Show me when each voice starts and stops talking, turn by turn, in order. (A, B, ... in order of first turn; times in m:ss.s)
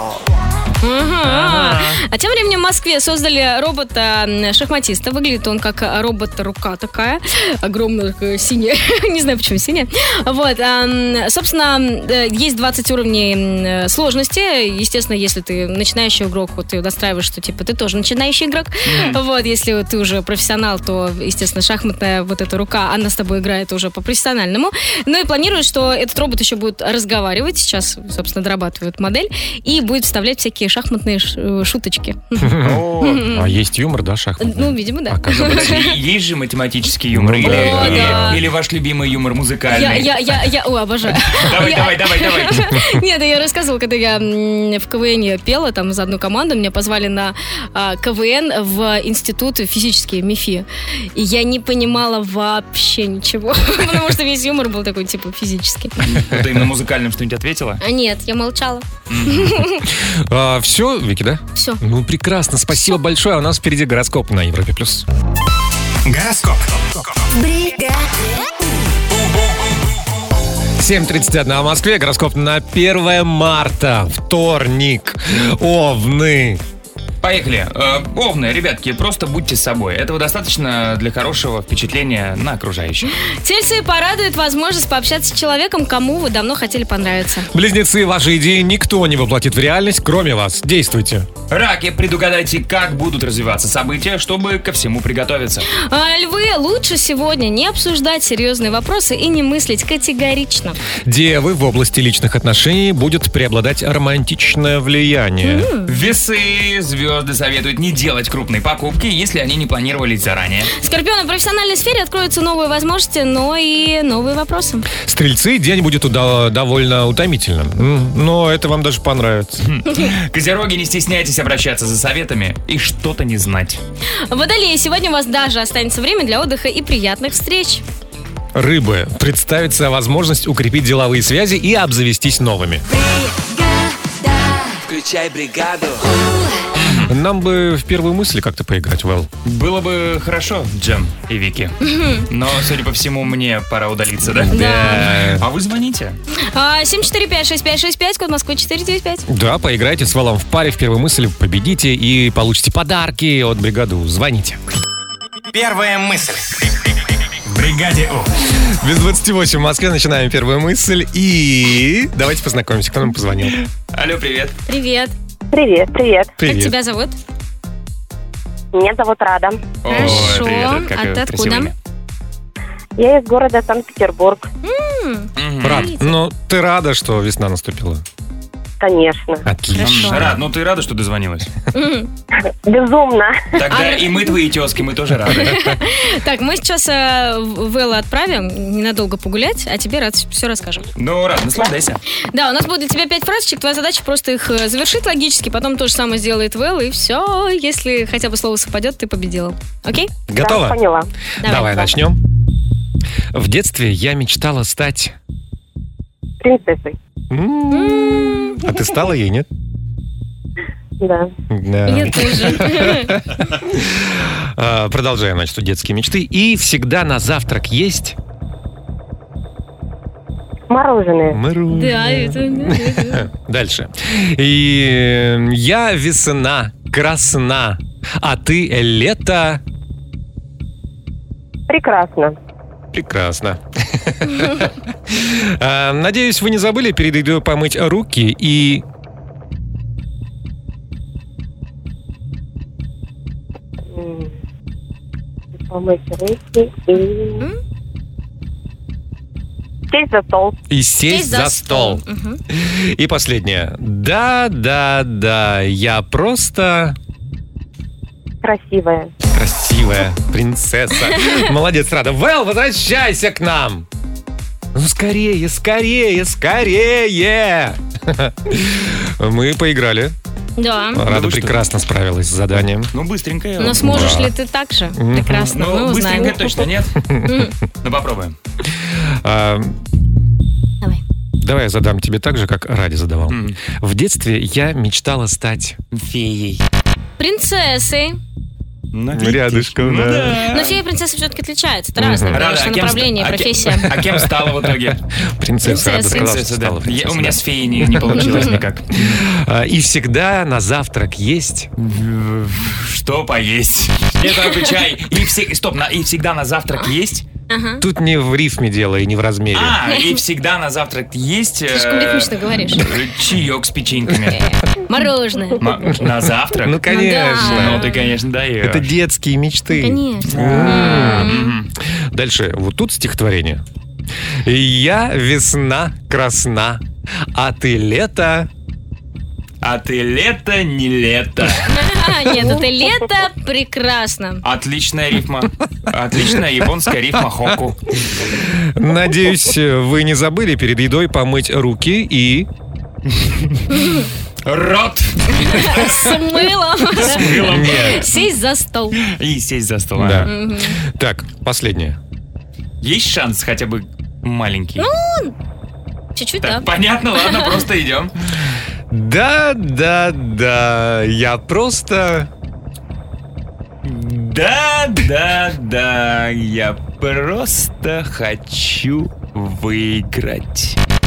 0:00.8-0:32.5 A
0:01.3-0:02.0 B
0:18.9-0:19.2 B
0:32.4-0:35.7 C
0:32.6-0:33.2 B
0:33.0-0:33.4 A
0:34.4-0:35.9 A
0:35.3-0:40.3 B
0:37.1-0:38.4 C
0:37.4-0:38.4 A
0:39.7-0:56.0 A
0:41.3-0:42.6 B
0:56.0-0:57.8 B
0:57.8-0:59.8 A
0:59.1-0:59.6 B
0:59.9-1:05.0 C
1:01.6-1:01.8 A
1:06.0-1:07.2 D
1:07.5-1:08.1 E
1:09.1-1:09.9 D
1:10.8-1:16.6 C
1:17.2-1:23.1 B
1:23.4-1:27.5 A
1:27.5-1:31.3 C
1:31.5-1:35.7 B
1:35.7-1:40.8 A
1:41.0-1:45.7 C
1:45.4-1:46.0 A
1:45.9-1:50.7 B
1:50.8-1:54.9 A
1:55.0-1:59.6 C
1:59.6-2:03.8 B
2:04.3-2:07.8 A
2:08.6-2:12.8 C
2:12.9-2:14.8 E
2:14.9-2:16.0 B
2:16.1-2:16.6 E
2:16.8-2:17.1 B
2:17.1-2:19.3 C
2:19.4-2:21.8 B
2:21.8-2:22.3 A
2:22.3-2:26.2 B
2:24.4-2:25.5 C
2:24.5-2:25.1 A
2:26.5-2:29.2 A
2:29.3-2:34.6 C
2:35.5-2:37.0 D
2:37.5-2:38.3 D
2:38.8-2:43.6 C
2:43.6-2:44.6 B
2:44.7-2:45.1 A
2:45.5-2:46.4 F
2:46.4-2:46.8 C
2:46.4-2:47.2 A
2:48.7-2:49.7 F
2:49.8-2:51.8 B
2:49.9-2:51.7 A
2:50.0-2:50.4 C
2:53.0-2:54.5 F
2:54.6-2:56.1 A
2:55.4-2:55.9 B
2:55.6-2:58.0 C
2:58.8-2:59.5 F
2:59.4-3:00.4 C
2:59.7-3:00.2 A
2:59.8-3:01.5 B
3:01.7-3:02.1 A
3:02.4-3:03.5 F
3:03.6-3:05.6 B
3:03.7-3:04.3 A
3:05.4-3:10.9 A
3:11.0-3:12.0 B
3:12.3-3:20.1 A
3:20.3-3:20.8 C
3:20.4-3:21.1 F
3:21.4-3:22.2 C
3:21.4-3:21.9 A
3:23.3-3:25.2 C
3:26.4-3:27.0 F
3:27.3-3:29.5 C
3:27.7-3:28.6 A
3:31.0-3:31.3 F
3:31.5-3:38.2 C
3:31.9-3:33.1 A
3:40.7-3:41.4 F
3:41.3-3:49.6 C
3:41.7-3:43.2 A
3:51.7-3:52.4 F
3:52.9-3:58.8 C
4:03.9-4:04.3 F
4:05.6-4:07.5 F
4:09.9-4:10.6 F
4:10.7-4:17.0 C
4:11.1-4:12.4 A
4:18.4-4:19.1 F
4:19.3-4:23.9 C
4:24.7-4:30.2 C
4:30.6-4:31.0 A
4:30.9-4:32.9 C
4:31.0-4:31.7 B
4:32.9-4:34.2 B
4:33.6-4:36.7 A
4:33.8-4:34.3 C
4:35.0-4:35.5 C
4:35.5-4:36.9 B
4:37.0-4:37.5 C
4:37.3-4:37.5 A
4:37.8-4:38.4 B
4:38.9-4:39.8 C
4:41.4-4:45.8 C
4:43.3-4:43.6 B
4:45.9-4:46.6 B
4:47.2-4:48.2 A
4:48.9-4:50.8 B
4:49.1-4:50.4 C
4:50.5-4:53.9 A
4:52.0-4:52.4 C
4:52.3-4:55.0 B
4:53.9-5:01.7 C
4:55.6-4:56.3 A
4:55.9-4:59.2 B
5:01.8-5:07.2 B
5:04.3-5:04.7 A
5:07.5-5:07.8 A
5:07.8-5:09.8 C
5:09.5-5:14.4 B
5:11.7-5:12.8 A
5:14.3-5:15.6 A
5:15.6-5:16.8 B
5:16.6-5:17.8 C
5:16.9-5:18.0 A
5:17.4-5:18.9 B
5:18.6-5:23.6 C
5:19.7-5:21.6 A
5:20.3-5:21.7 B
5:24.4-5:28.5 C
5:29.6-5:31.8 B
5:31.7-5:34.4 A
5:34.4-5:37.9 B
5:38.5-5:42.5 C
5:43.1-5:43.6 B
5:43.7-5:44.1 A
5:44.4-5:46.1 B
5:45.4-5:49.0 A
5:47.0-5:48.0 B
5:47.2-5:48.1 C
5:49.0-5:50.3 B
5:50.0-5:52.0 C
5:50.3-5:50.8 A
5:52.8-5:54.9 B
5:54.8-5:55.3 A
5:56.2-5:56.7 A
5:56.4-5:58.6 B
5:57.2-5:57.5 A
5:58.9-6:02.3 C
6:03.8-6:10.8 B